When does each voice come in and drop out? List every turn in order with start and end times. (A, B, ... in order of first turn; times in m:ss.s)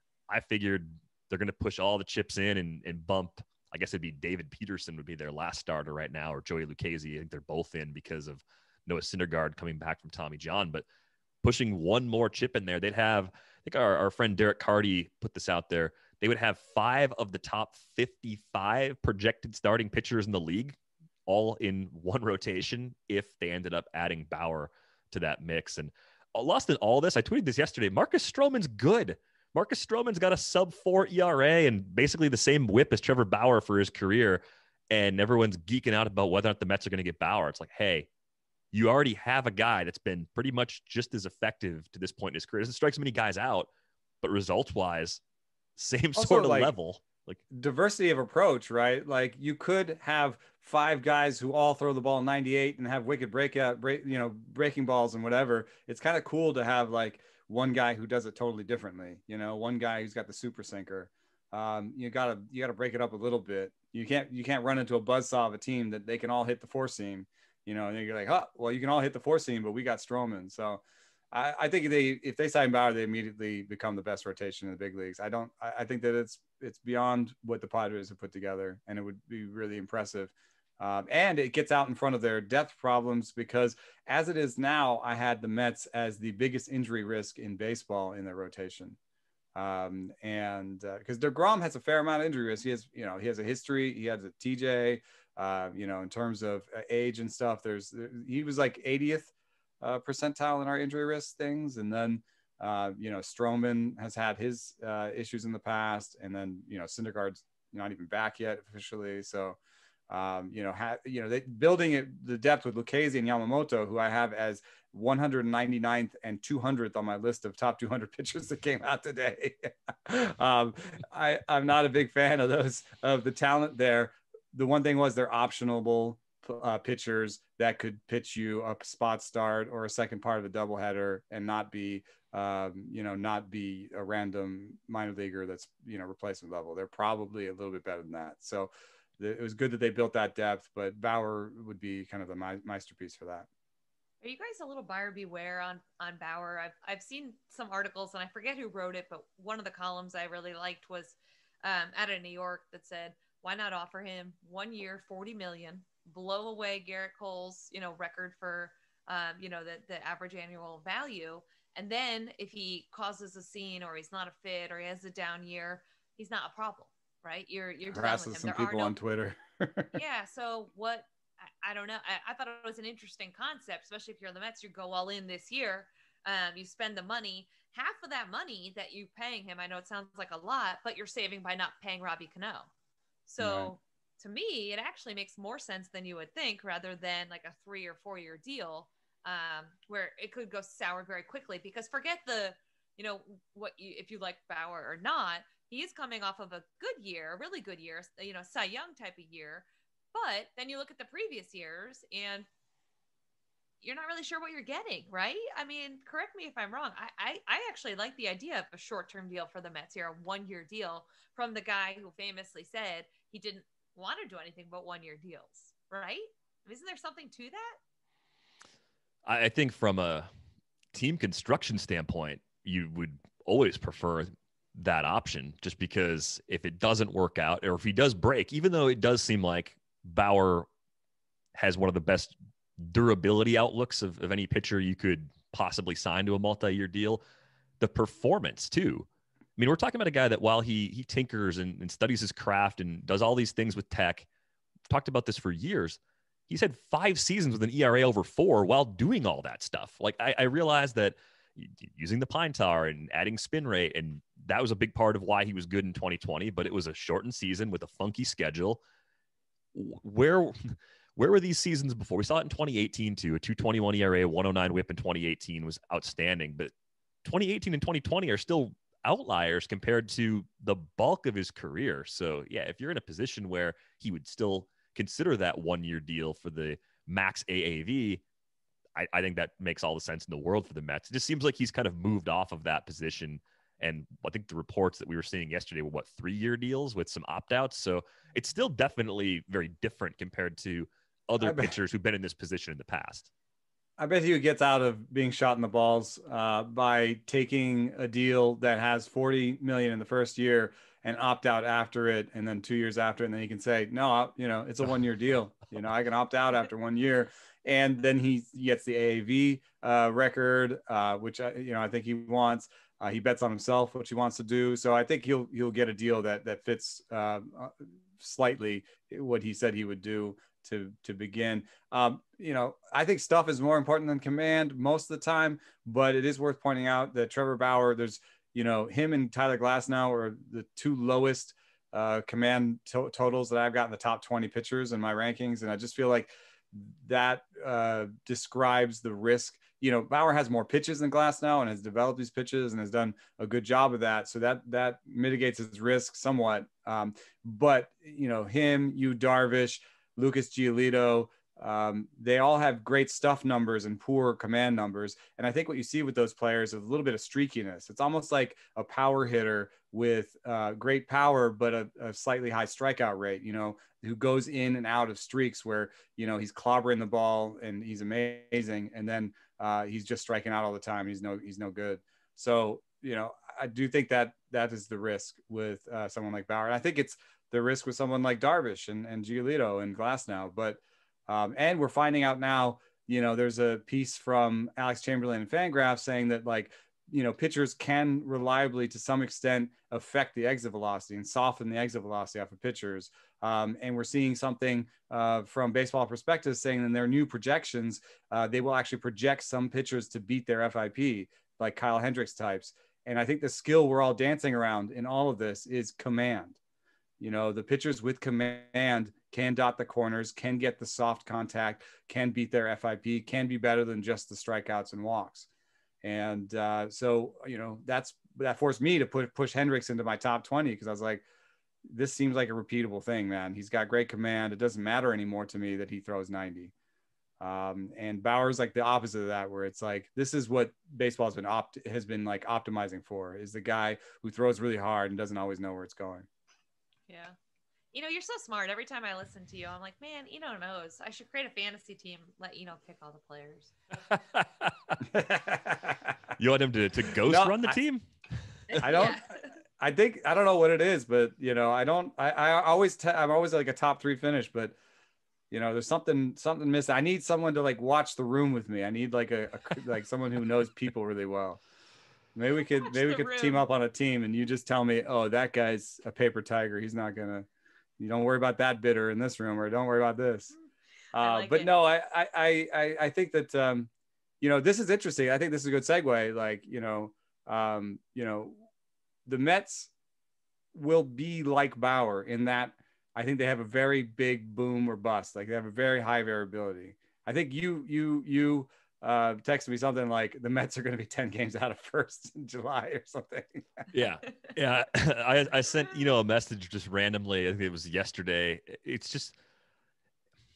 0:00.3-0:10.9 A
0:11.4-0:38.1 A
0:38.7-0:43.7 A
0:44.2-0:45.2 A
0:45.8-0:47.4 A
0:46.2-0:46.7 B
0:47.5-1:29.0 B
1:29.6-2:23.5 B
2:24.2-2:49.0 C
2:47.8-2:49.9 B
2:49.9-3:02.7 C
3:03.3-3:22.5 C
3:03.4-3:03.7 B
3:23.8-3:37.8 C
3:39.3-3:40.3 A
3:40.9-3:50.7 A
3:51.6-3:57.2 A
3:57.8-4:04.3 A
4:04.9-4:18.8 A
4:19.7-4:26.7 A
4:27.2-4:38.2 A
4:39.0-4:53.3 A
4:51.4-4:51.7 B
4:54.0-6:46.6 B
6:47.2-6:55.5 B
6:56.0-7:01.2 B
7:01.8-7:06.7 B
7:07.4-7:16.3 B
7:17.1-7:17.4 C
7:17.9-7:23.7 C
7:24.1-7:25.0 A
7:25.0-7:26.2 B
7:26.4-7:28.8 A
7:27.3-7:27.8 B
7:28.7-7:29.5 C
7:28.8-7:34.8 B
7:35.5-7:41.6 B
7:42.4-7:47.5 B
7:42.6-7:43.6 C
7:48.0-7:50.5 B
7:51.1-7:53.9 B
7:51.2-7:51.8 C
7:54.4-7:58.6 B
7:59.3-7:59.9 B
8:00.7-8:13.9 B
8:13.9-8:19.4 A